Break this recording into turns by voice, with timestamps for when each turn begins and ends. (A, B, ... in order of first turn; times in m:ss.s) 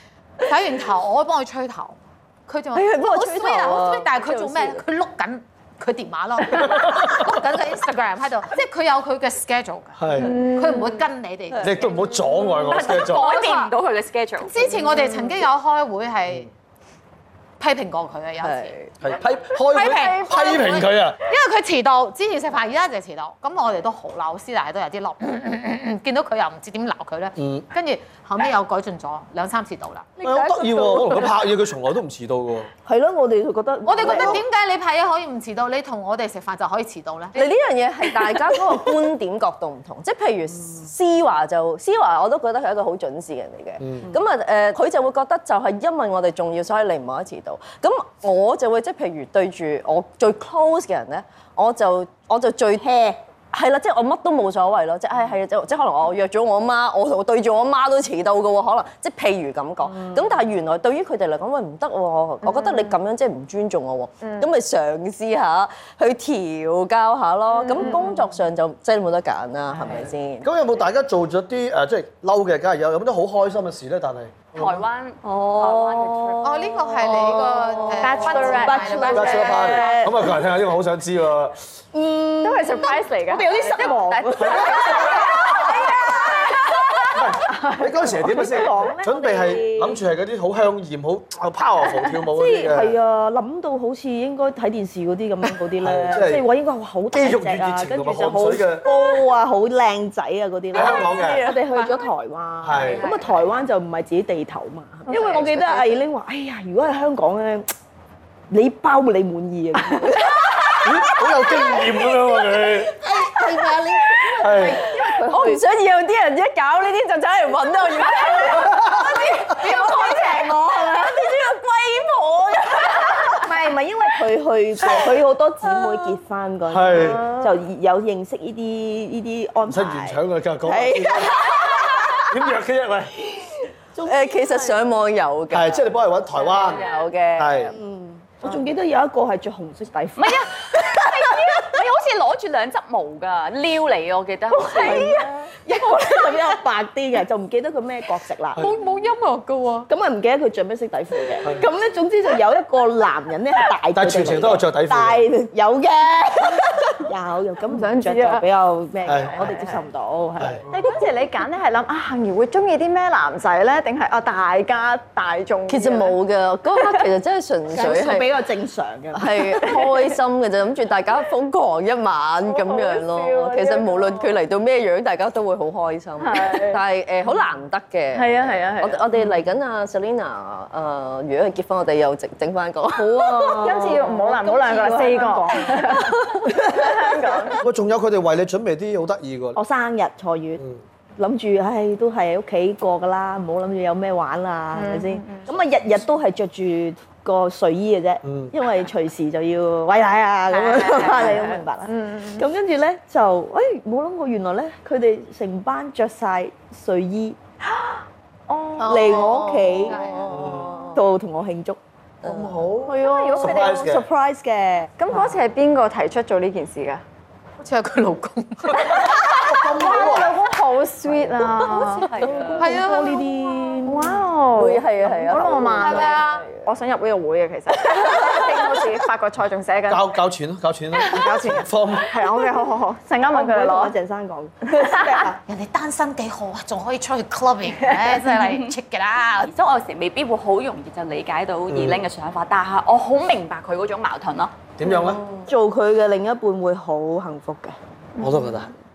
0:00.4-0:13.7 A
0:02.7-0:04.8 B
0:06.6-0:07.2 C
0:10.0-0:10.5 C
0:10.2-0:11.0 D
0:11.5-0:11.8 B
0:11.6-0:13.3 C
0:12.6-0:14.6 E
0:14.4-0:16.5 A
0:17.6-0:18.8 A
0:18.4-0:19.0 B
0:19.0-0:21.2 C
0:19.5-0:30.1 A
0:27.4-0:27.7 C
0:30.2-0:32.7 C
0:30.2-0:31.3 B
0:30.3-0:31.3 F
0:32.8-0:34.4 F
0:33.8-0:37.5 A
0:34.0-0:34.3 B
0:37.3-1:10.5 B
0:43.8-0:44.1 C
1:02.5-1:02.9 D
1:10.4-1:14.8 C
1:14.5-1:16.7 E
1:15.2-1:19.9 B
1:16.4-1:20.1 A
1:17.0-1:17.8 F
1:18.0-1:19.7 D
1:18.4-1:20.1 F
1:19.1-1:21.6 C
1:21.9-1:26.1 F
1:22.4-1:26.6 D
1:23.8-1:25.2 E
1:24.8-1:25.3 C
1:27.1-1:32.9 C
1:27.4-1:28.0 D
1:28.0-1:30.0 F
1:32.3-1:47.7 F
1:35.8-1:36.4 C
1:37.1-1:38.9 C
1:40.7-1:41.5 C
1:40.8-1:41.5 B
1:41.7-1:42.0 A
1:42.6-1:43.0 C
1:45.1-1:45.4 D
1:45.2-1:45.9 B
1:48.5-1:55.6 F
1:50.8-1:53.0 C
1:53.5-1:53.8 B
1:54.4-1:54.8 C
1:54.6-1:55.3 D
1:54.6-2:03.4 B
1:58.6-1:59.2 C
1:59.6-2:00.5 D
1:59.6-2:00.6 F
2:03.4-2:11.8 F
2:06.7-2:07.3 C
2:07.0-2:07.5 D
2:09.7-2:13.6 C
2:11.0-2:12.2 B
2:13.9-2:14.8 F
2:14.0-2:15.8 B
2:15.5-2:16.8 C
2:16.4-2:17.7 B
2:17.4-2:17.7 C
2:17.7-2:21.6 F
2:20.2-2:25.3 E
2:24.5-2:28.7 F
2:28.6-2:29.9 A
2:29.9-2:40.6 F
2:33.9-2:35.3 C
2:37.7-2:38.5 D
2:39.0-2:39.8 D
2:39.0-2:39.4 C
2:40.4-2:40.7 C
2:40.7-2:46.1 D
2:45.7-2:48.3 B
2:47.7-2:49.7 F
2:49.1-3:04.3 B
2:52.4-2:54.3 D
2:56.2-2:56.8 D
2:58.1-2:59.0 D
3:03.1-3:07.6 F
3:03.4-3:07.6 D
3:07.6-3:09.6 C
3:09.5-3:10.6 F
3:11.2-3:27.4 F
3:14.7-3:15.5 D
3:18.2-3:18.5 C
3:20.5-3:22.4 D
3:28.5-3:29.9 D
3:28.8-3:31.8 F
3:29.9-3:30.3 A
3:29.9-3:31.0 B
3:30.3-3:30.7 C
3:32.2-3:32.7 B
3:32.2-3:34.0 C
3:32.8-3:33.8 D
3:33.0-3:34.9 F
3:35.0-3:37.0 D
3:37.6-3:39.4 A
3:38.7-3:40.3 C
3:38.8-3:42.1 D
3:41.1-3:42.9 B
3:42.1-3:44.2 F
3:42.2-3:43.3 A
3:43.8-3:50.0 D
3:44.5-3:46.7 B
3:45.8-3:46.4 A
3:49.9-3:52.2 C
3:51.0-3:54.0 D
3:53.3-3:55.4 F
3:54.8-3:55.2 D
3:55.5-3:59.5 A
3:58.3-3:58.7 E
3:59.3-4:04.5 E
4:01.7-4:02.0 C
4:04.8-4:05.2 C
4:05.0-4:05.5 B
4:05.4-4:07.8 F
4:08.2-4:08.7 C